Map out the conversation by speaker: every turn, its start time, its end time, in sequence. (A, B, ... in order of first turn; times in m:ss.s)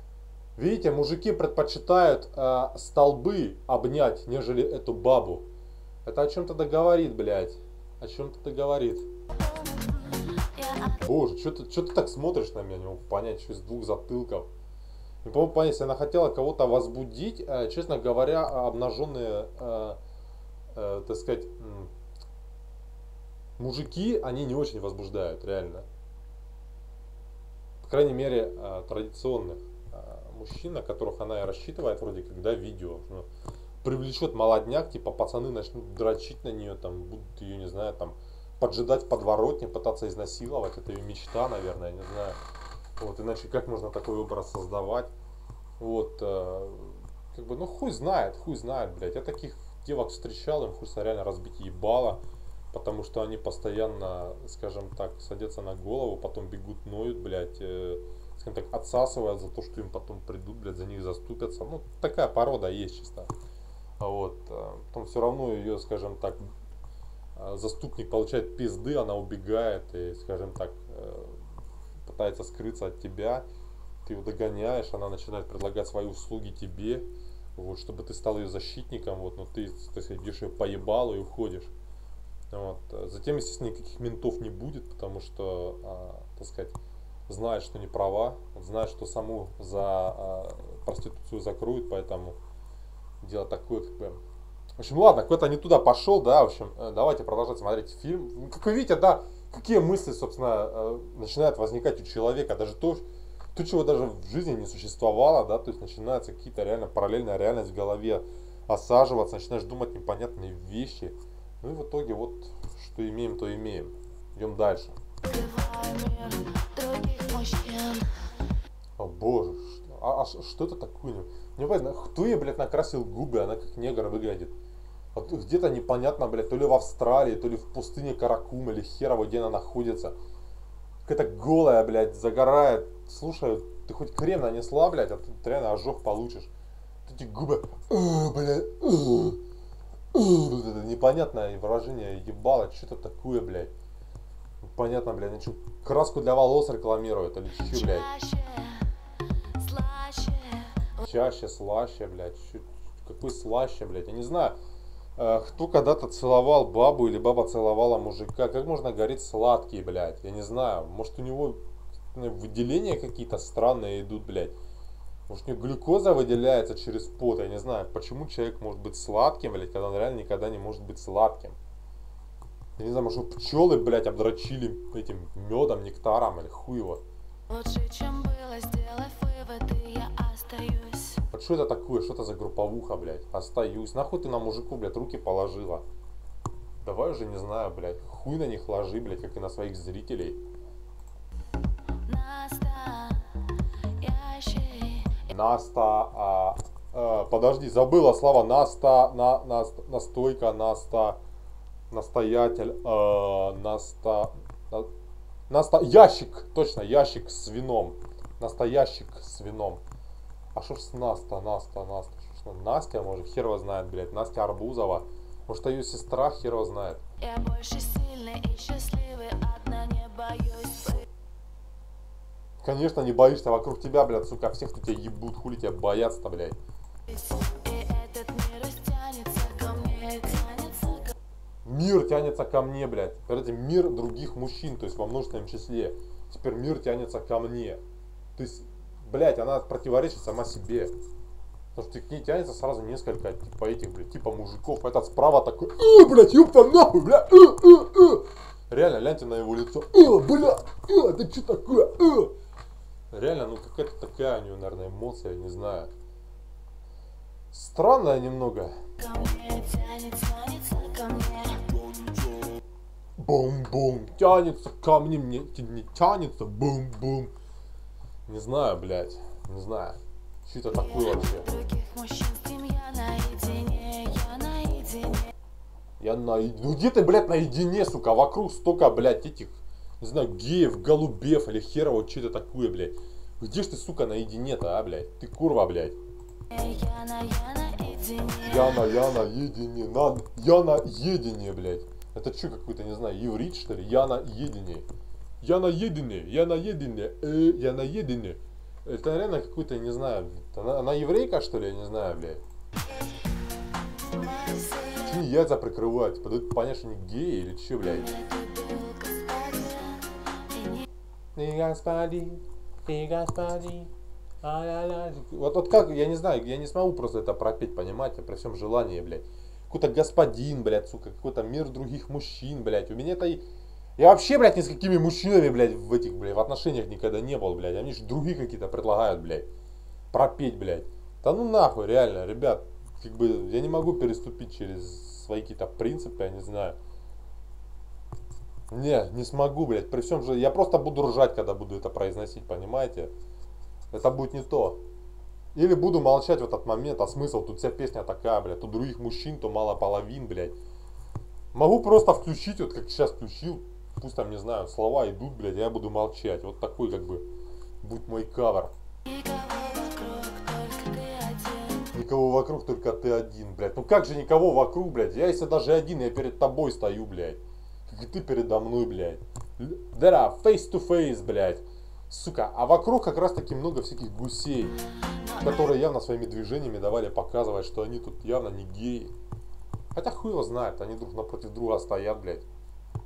0:00.6-0:05.4 A
0:06.0-0:09.1 A
0:09.4-0:11.0 B
0:11.0-0:14.5 A
0:15.2-0:20.0 A
0:20.7-0:21.9 A
0:23.6-0:25.8 A
0:27.8-0:33.3 A
0:33.8-0:42.4 A
0:43.0-0:45.1 A
0:45.8-0:52.2 A
0:52.7-1:03.3 A
1:04.0-1:06.5 A
1:07.4-1:11.4 A
1:12.0-1:13.4 A
1:14.0-1:21.7 A
1:22.5-1:26.8 A
1:27.3-1:32.4 A
1:33.2-1:34.2 A
1:34.8-1:54.9 A
1:55.2-1:58.1 B
1:59.0-2:04.5 A
2:05.1-2:10.2 A
2:11.0-2:16.5 A
2:17.0-2:19.4 A
2:20.1-2:23.7 A
2:24.6-2:28.1 A
2:27.7-2:29.0 B
2:29.5-2:31.0 B
2:31.0-2:34.6 A
2:35.2-2:41.6 A
2:42.1-2:44.5 A
2:45.3-2:51.6 A
2:52.8-2:57.0 A
2:57.5-3:01.2 B
3:01.3-3:05.8 A
3:06.8-3:10.4 A
3:12.0-3:13.4 B
3:14.0-3:15.3 B
3:15.3-3:21.2 A
3:21.9-3:24.9 A
3:25.5-3:29.8 A
3:30.5-3:37.0 A
3:37.2-3:41.1 B
3:42.6-3:46.6 A
3:47.1-3:51.1 B
3:51.6-3:57.8 A
3:58.4-4:00.9 A
4:01.8-4:12.3 A
4:13.1-4:15.9 A
4:17.5-4:18.8 A
4:19.0-4:22.1 B
4:23.2-4:27.3 A
4:28.3-4:31.5 A
4:30.7-4:35.3 B
4:36.0-4:46.0 A
4:46.5-4:49.0 B
4:48.4-4:54.8 A
4:55.4-5:02.4 A
5:03.9-5:05.2 B
5:05.0-5:08.1 A
5:07.9-5:10.9 B
5:11.3-5:23.4 A
5:24.0-5:29.5 A
5:30.1-5:36.8 A
5:38.7-5:43.1 A
5:43.9-5:44.8 A
5:45.5-5:50.6 A
5:51.5-5:57.3 A
5:57.8-5:58.7 A
5:59.0-6:01.9 B
6:01.9-6:14.8 A
6:15.2-6:15.7 B
6:15.4-6:19.1 A
6:19.9-6:22.5 A